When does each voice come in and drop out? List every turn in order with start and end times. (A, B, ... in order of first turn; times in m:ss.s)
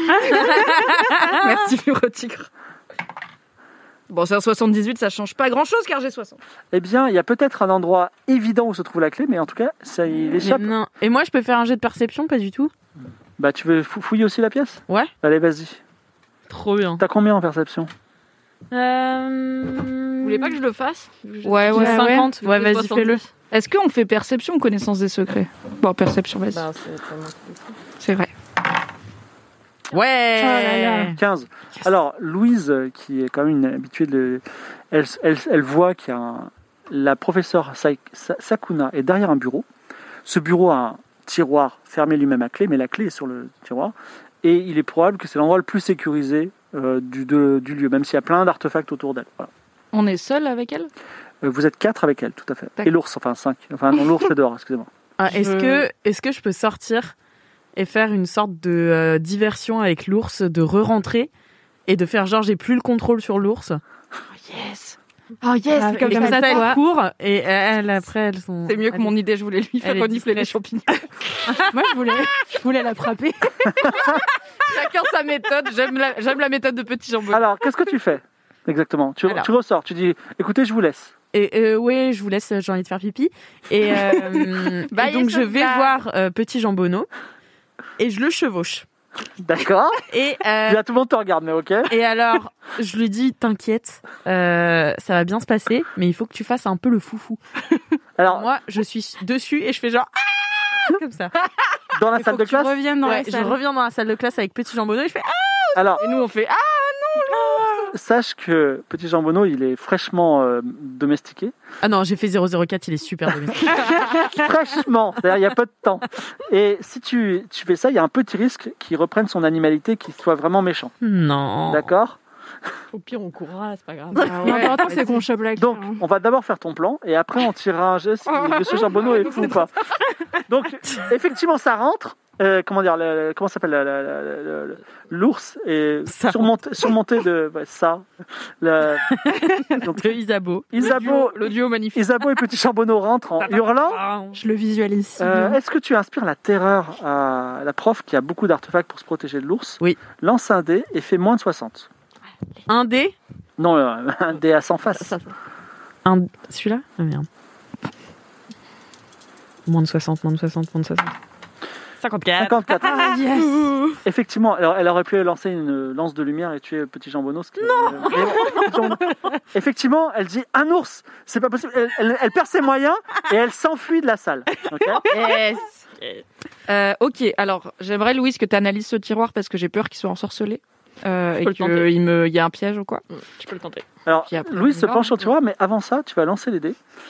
0:00.2-0:00.7 A
0:00.3-0:02.5 B
0:04.1-0:06.4 B
0:06.7-0:10.7 C
0:10.4-0:12.7 D
0:13.4-0:15.8 C
0:16.5-0:17.0 D
0:17.0-0:17.9 C
0:18.7-0:20.4 D
0:20.2-0:26.6 B
0:20.3-0:22.0 E
0:21.7-0:23.2 D
0:21.7-0:22.3 A
0:26.5-0:27.8 E
0:28.0-0:28.3 B
0:29.9-0:31.2 D
0:30.4-0:31.2 A
0:31.1-0:39.7 C
0:40.2-0:49.5 C
0:49.9-0:50.9 B
0:51.4-0:54.9 C
0:55.2-0:57.1 D
0:55.3-0:55.9 B
0:57.8-1:01.3 D
1:01.9-1:03.8 D
1:04.4-1:06.8 B
1:05.8-1:06.8 A
1:06.0-1:09.1 D
1:08.7-1:11.1 B
1:09.8-1:10.6 D
1:11.7-1:14.2 A
1:14.7-1:17.5 B
1:17.3-1:21.1 C
1:21.3-1:27.1 D
1:24.9-1:25.9 B
1:28.0-1:28.9 D
1:29.4-1:30.0 C
1:30.1-1:30.8 D
1:30.6-1:31.9 C
1:31.9-1:37.4 D
1:38.2-1:38.5 C
1:38.2-1:41.3 D
1:41.9-1:42.8 C
1:42.2-1:43.6 A
1:43.0-1:46.0 D
1:45.8-1:46.0 C
1:46.0-1:47.9 B
1:47.3-1:47.9 A
1:47.9-1:51.5 C
1:51.8-1:54.2 D
1:53.7-2:00.9 C
2:01.0-2:01.9 D
2:01.7-2:02.2 C
2:02.9-2:05.3 E
2:04.2-2:06.0 A
2:04.3-2:04.9 B
2:05.6-2:09.7 C
2:08.3-2:09.7 B
2:10.5-2:18.1 C
2:16.1-2:16.9 D
2:18.6-2:19.2 C
2:19.1-2:21.0 D
2:19.8-2:20.2 C
2:20.7-2:24.0 C
2:20.8-2:22.2 B
2:23.9-2:24.4 D
2:24.3-2:25.6 A
2:25.2-2:31.9 C
2:32.7-2:33.2 D
2:33.6-2:35.1 C
2:34.9-2:35.4 E
2:36.0-2:37.3 D
2:39.7-2:41.1 D
2:42.0-2:43.1 D
2:42.4-2:43.0 C
2:42.8-2:43.7 A
2:44.0-2:55.0 C
2:47.6-2:49.1 D
2:55.1-2:55.6 B
2:56.7-3:03.0 B
3:01.4-3:01.9 E
3:03.1-3:03.9 E
3:04.1-3:06.8 C
3:04.3-3:05.3 B